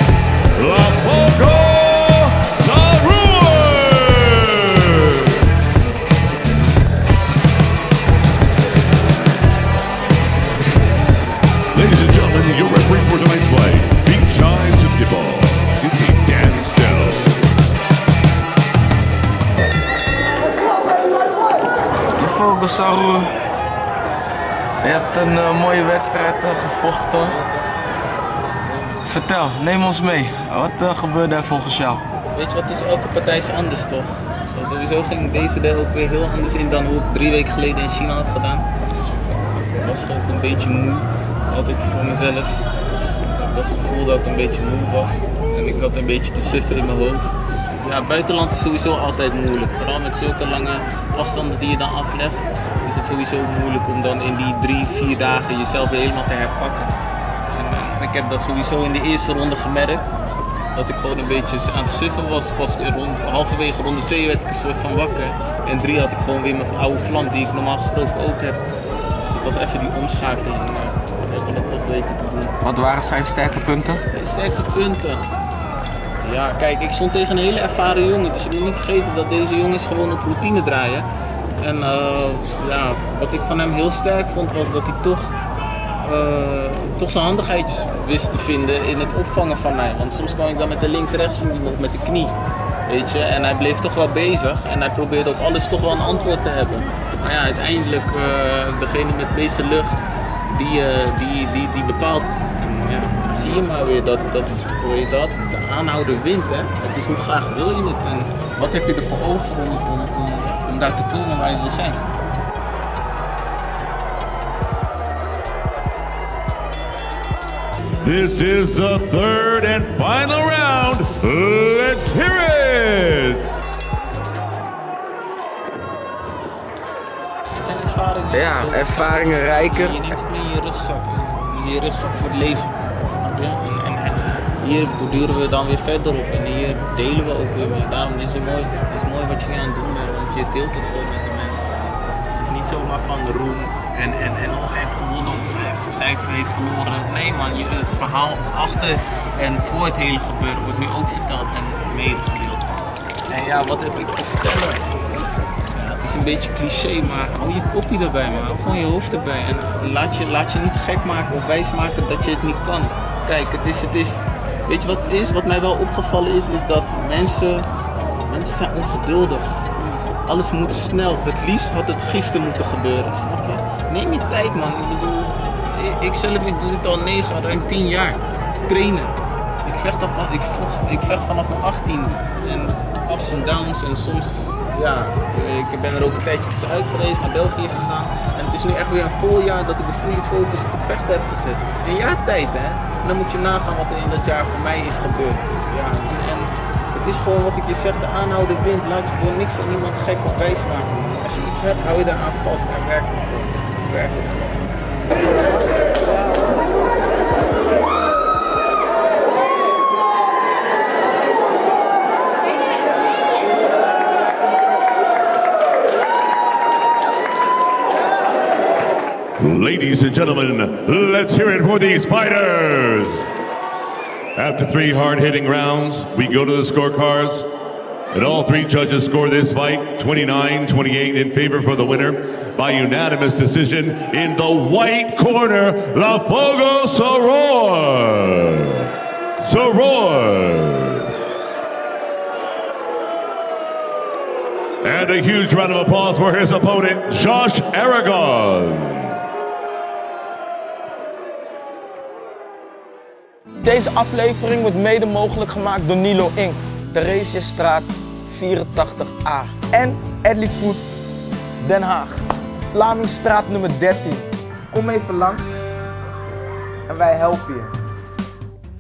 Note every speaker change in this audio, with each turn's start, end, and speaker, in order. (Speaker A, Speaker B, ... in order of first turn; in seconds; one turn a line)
Speaker A: 0.6-5.3
Speaker A: 11.7-17.3
Speaker B: 22.2-23.3
Speaker B: 24.8-27.4
Speaker B: 29.0-32.0
Speaker C: 32.3-38.7
Speaker C: 39.8-42.5
Speaker C: 43.3-56.9
Speaker C: 57.5-60.1
Speaker C: 60.7-68.6
Speaker C: 69.2-72.5
Speaker B: 72.6-74.0
Speaker C: 74.0-75.3
Speaker C: 76.2-81.1
Speaker C: 81.6-85.3
Speaker C: 86.0-112.0
Speaker A: 118.0-123.4
Speaker C: 127.6-155.0
Speaker B: 128.3-130.0
Speaker C: 155.7-167.7
Speaker C: 168.3-169.7
Speaker C: 170.2-204.6
Speaker A: 219.4-223.3
Speaker A: 224.3-227.4
Speaker A: 228.1-238.9
Speaker A: 239.4-241.1
Speaker A: 244.8-249.1
Speaker B: 253.6-260.8
Speaker B: 261.6-265.6
Speaker B: 266.9-267.7